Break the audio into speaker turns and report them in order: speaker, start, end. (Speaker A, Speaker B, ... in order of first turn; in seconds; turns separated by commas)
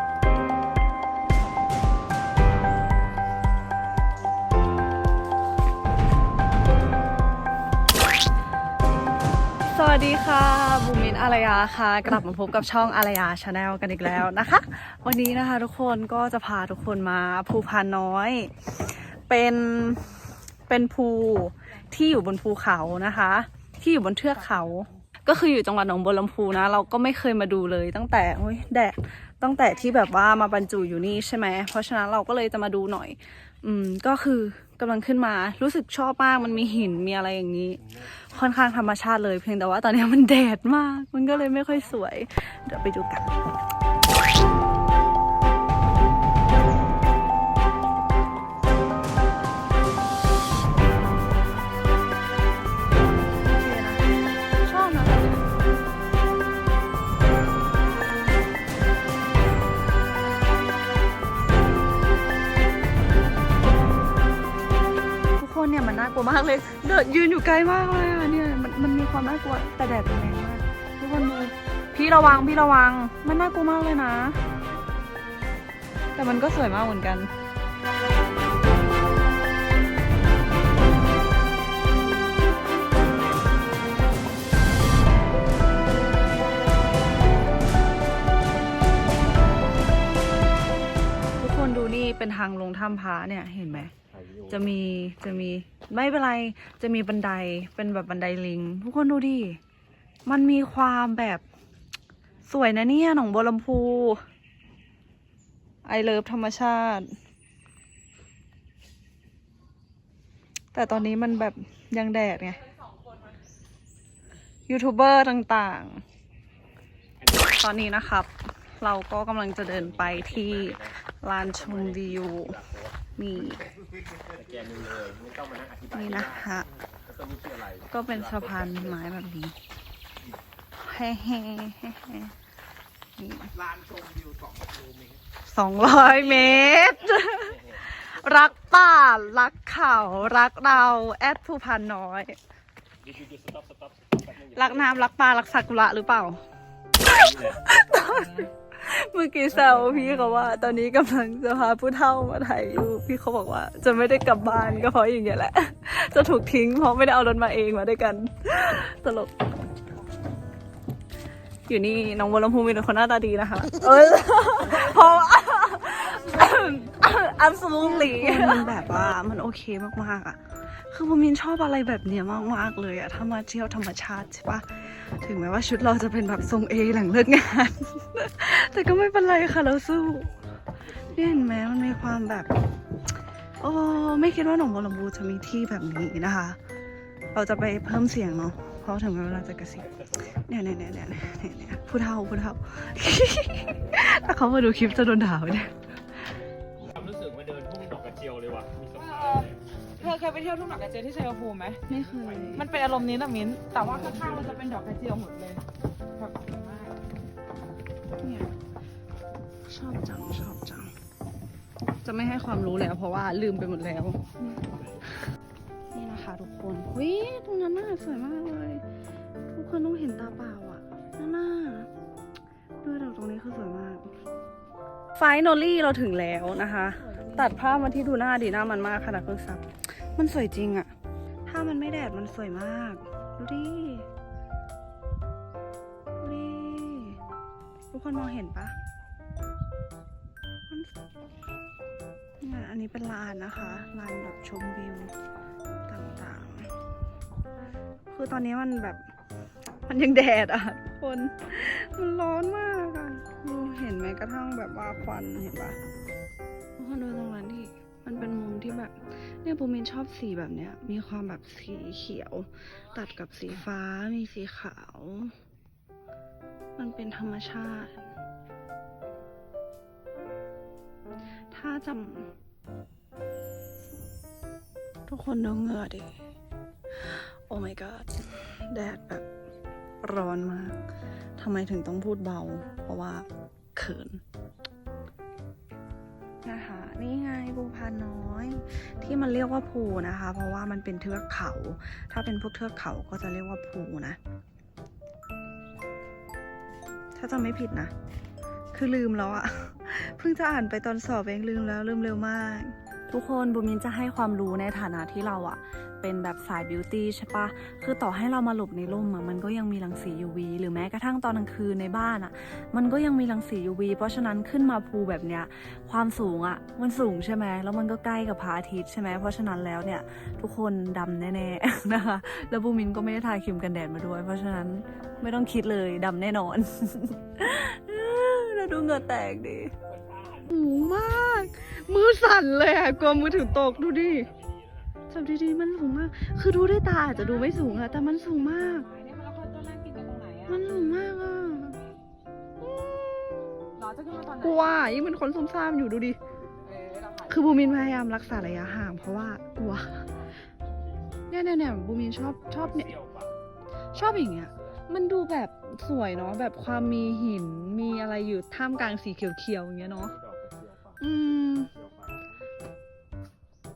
Speaker A: 9.7-43.3, Speaker A: 53.4-54.0, Speaker A: 54.6-55.4, Speaker A: 65.4-74.4, Speaker A: 76.1-77.3, Speaker A: 91.4-93.9, Speaker B: 93.9-94.7, Speaker A: 94.5-99.6, Speaker A: 100.2-101.4, Speaker A: 102.5-104.2, Speaker A: 105.8-107.2, Speaker A: 110.7-112.7, Speaker A: 114.7-116.0, Speaker A: 117.5-122.6, Speaker B: 119.7-123.0, Speaker A: 123.2-123.7, Speaker B: 124.2-129.0, Speaker A: 125.9-126.7, Speaker A: 127.8-129.5, Speaker A: 130.8-132.3, Speaker A: 133.2-133.5, Speaker A: 135.5-142.3, Speaker B: 137.1-137.5, Speaker B: 143.0-145.1, Speaker A: 144.4-146.4, Speaker A: 147.0-159.3, Speaker B: 147.1-147.7, Speaker A: 161.7-180.3, Speaker A: 181.0-182.5, Speaker A: 183.6-186.6, Speaker A: 187.3-195.9, Speaker B: 196.9-199.6, Speaker C: 199.0-201.8, Speaker A: 201.9-202.7, Speaker C: 202.5-205.6, Speaker B: 204.1-204.6, Speaker C: 206.2-207.0, Speaker A: 208.2-208.5, Speaker A: 209.7-210.9, Speaker A: 212.0-214.6, Speaker A: 215.9-218.8, Speaker A: 219.5-221.9, Speaker A: 222.8-224.1, Speaker A: 225.2-230.9, Speaker C: 227.1-227.8, Speaker A: 231.5-234.1, Speaker A: 236.2-237.2, Speaker A: 237.9-238.7, Speaker A: 240.7-240.9, Speaker A: 242.4-245.1, Speaker A: 245.9-246.8, Speaker A: 248.1-249.0, Speaker A: 249.8-255.8, Speaker A: 256.8-265.3, Speaker A: 266.8-268.1, Speaker A: 271.5-272.3, Speaker A: 275.1-276.1, Speaker A: 276.9-279.2, Speaker A: 280.0-280.8, Speaker A: 281.4-284.2, Speaker A: 286.4-294.2, Speaker A: 297.1-297.9, Speaker A: 298.7-329.7, Speaker B: 329.9-330.5, Speaker A: 330.5-334.3, Speaker B: 333.5-334.9, Speaker A: 335.1-338.9, Speaker C: 337.1-340.6, Speaker A: 340.5-341.8, Speaker A: 342.7-343.0, Speaker C: 343.8-344.9, Speaker A: 344.4-346.2, Speaker C: 346.7-347.4, Speaker A: 347.3-350.1, Speaker A: 351.3-353.0, Speaker B: 352.6-353.3, Speaker A: 353.9-360.1, Speaker B: 360.1-361.0, Speaker A: 361.0-361.7, Speaker B: 361.8-362.1